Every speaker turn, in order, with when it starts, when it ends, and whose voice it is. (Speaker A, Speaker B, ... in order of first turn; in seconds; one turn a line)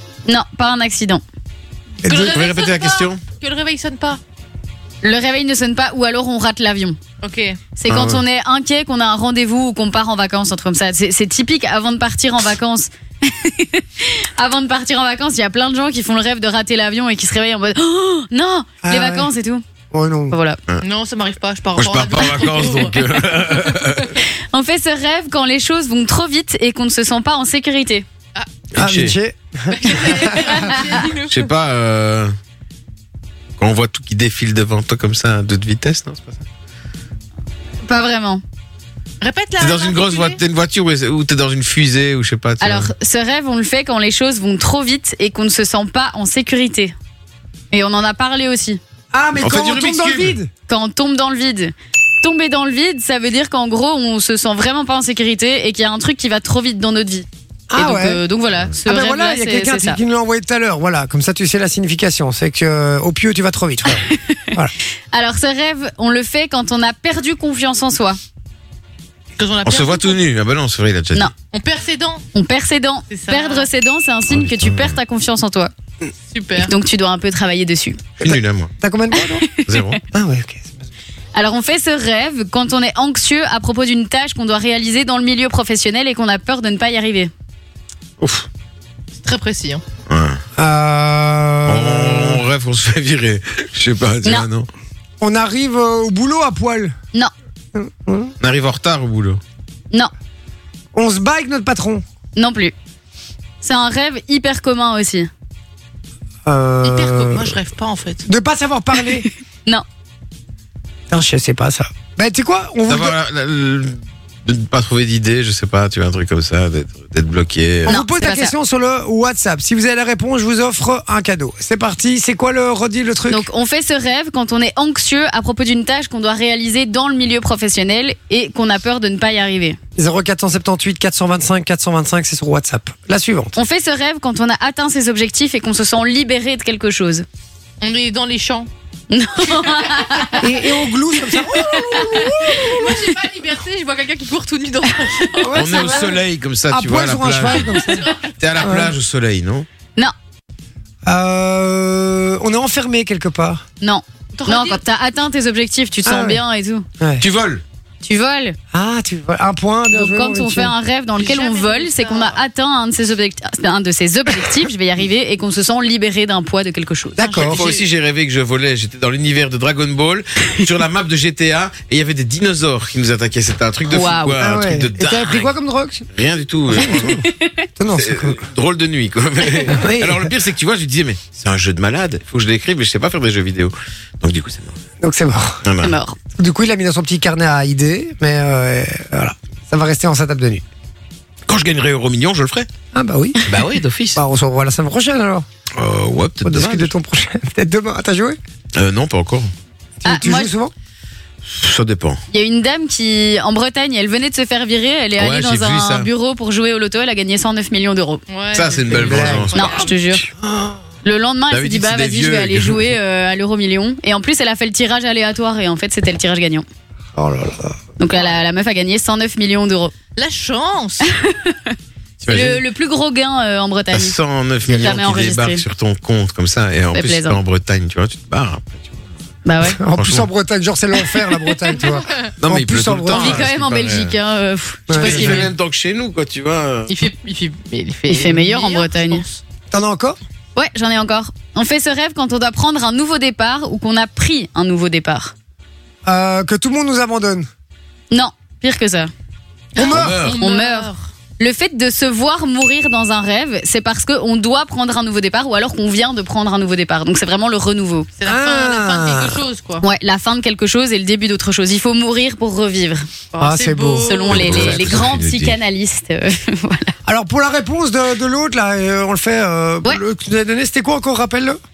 Speaker A: 0.3-1.2
Speaker B: 2.0-2.4
Speaker C: 2.0-4.2
Speaker D: 2.1-3.2
Speaker A: 5.0-7.0
Speaker C: 7.2-7.6
Speaker A: 7.8-19.6
Speaker D: 7.9-8.2
Speaker B: 18.8-19.3
Speaker B: 19.9-20.4
Speaker A: 20.3-20.6
Speaker C: 20.8-23.0
Speaker D: 21.8-24.1
Speaker A: 24.5-28.0
Speaker D: 28.7-29.1
Speaker B: 28.8-30.7
Speaker C: 29.7-31.5
Speaker D: 31.3-32.3
Speaker D: 33.6-36.4
Speaker A: 37.9-38.4
Speaker C: 39.2-40.4
Speaker D: 39.6-42.9
Speaker A: 42.6-46.9
Speaker A: 47.7-48.8
Speaker B: 49.1-50.5
Speaker D: 49.4-50.4
Speaker A: 50.7-60.0
Speaker B: 57.7-58.2
Speaker B: 58.8-64.7
Speaker A: 64.0-64.5
Speaker A: 65.1-68.2
Speaker C: 69.4-70.2
Speaker D: 69.6-71.3
Speaker C: 71.5-72.2
Speaker A: 72.3-75.7
Speaker C: 73.1-73.7
Speaker D: 74.3-75.0
Speaker C: 76.3-76.7
Speaker A: 76.6-78.0
Speaker B: 78.2-79.5
Speaker D: 78.2-78.7
Speaker A: 79.1-79.9
Speaker D: 79.7-80.0
Speaker B: 80.1-80.8
Speaker A: 81.3-87.3
Speaker D: 88.2-88.5
Speaker C: 89.2-89.8
Speaker D: 90.1-90.4
Speaker B: 90.6-92.4
Speaker D: 91.7-94.7
Speaker B: 95.2-96.9
Speaker B: 97.7-98.3
Speaker D: 98.4-99.4
Speaker B: 100.9-102.0
Speaker A: 102.3-102.7
Speaker A: 103.6-105.3
Speaker B: 106.5-107.6
Speaker C: 106.8-108.2
Speaker B: 108.2-109.3
Speaker B: 111.1-113.2
Speaker D: 112.9-118.0
Speaker B: 117.8-123.5
Speaker A: 117.9-118.5
Speaker A: 123.3-129.8
Speaker B: 130.0-133.6
Speaker A: 133.6-137.2
Speaker C: 137.8-138.7
Speaker A: 139.1-140.4
Speaker C: 139.5-140.4
Speaker B: 140.4-142.9
Speaker A: 141.7-142.3
Speaker C: 142.0-146.1
Speaker B: 145.4-148.9
Speaker D: 145.5-147.7
Speaker C: 147.6-148.7
Speaker D: 148.4-149.7
Speaker B: 151.1-153.6
Speaker A: 153.8-156.8
Speaker C: 154.3-154.8
Speaker B: 156.0-156.4
Speaker B: 157.0-157.2
Speaker D: 157.2-157.6
Speaker A: 158.0-158.6
Speaker B: 158.7-160.7
Speaker A: 159.9-167.2
Speaker C: 161.2-162.4
Speaker B: 167.2-167.6
Speaker C: 167.2-167.8
Speaker D: 167.3-175.5
Speaker A: 173.9-174.4
Speaker B: 174.4-176.1
Speaker D: 176.1-177.2
Speaker B: 176.7-177.2
Speaker A: 177.0-177.7
Speaker B: 177.8-178.4
Speaker D: 177.9-184.8
Speaker B: 179.7-180.3
Speaker B: 185.0-185.6
Speaker D: 185.6-186.0
Speaker A: 185.8-186.2
Speaker B: 186.4-190.6
Speaker D: 191.5-192.7
Speaker B: 192.9-193.4
Speaker D: 193.4-194.2
Speaker B: 194.1-195.4
Speaker D: 195.8-196.9
Speaker B: 196.4-198.4
Speaker D: 198.7-199.5
Speaker B: 200.0-200.7
Speaker A: 200.0-200.5
Speaker D: 201.4-202.2
Speaker A: 202.3-208.2
Speaker D: 205.2-206.1
Speaker C: 208.3-209.9
Speaker D: 208.5-210.0
Speaker B: 208.9-209.6
Speaker A: 209.5-210.3
Speaker A: 211.0-216.6
Speaker D: 211.5-212.8
Speaker B: 217.1-217.8
Speaker A: 218.0-219.9
Speaker C: 220.2-221.1
Speaker A: 221.1-221.8
Speaker D: 222.2-222.6
Speaker A: 222.3-224.2
Speaker D: 223.9-229.0
Speaker B: 224.7-224.9
Speaker A: 224.7-225.6
Speaker A: 226.9-227.4
Speaker A: 229.4-229.8
Speaker B: 229.6-233.5
Speaker D: 229.9-230.3
Speaker A: 231.1-231.6
Speaker D: 232.4-234.1
Speaker A: 233.1-235.5
Speaker B: 234.9-235.5
Speaker D: 234.9-236.9
Speaker C: 236.9-239.4
Speaker A: 238.1-239.2
Speaker B: 239.7-240.2
Speaker A: 240.6-245.3
Speaker B: 246.0-247.5
Speaker A: 248.1-249.1
Speaker B: 249.7-250.2
Speaker C: 249.7-251.0
Speaker D: 249.9-250.4
Speaker A: 250.4-258.1
Speaker C: 258.2-259.8
Speaker B: 258.2-259.4
Speaker A: 259.8-263.1
Speaker C: 263.3-264.4
Speaker B: 263.4-265.1
Speaker A: 264.0-266.9
Speaker D: 264.3-265.6
Speaker B: 267.1-271.6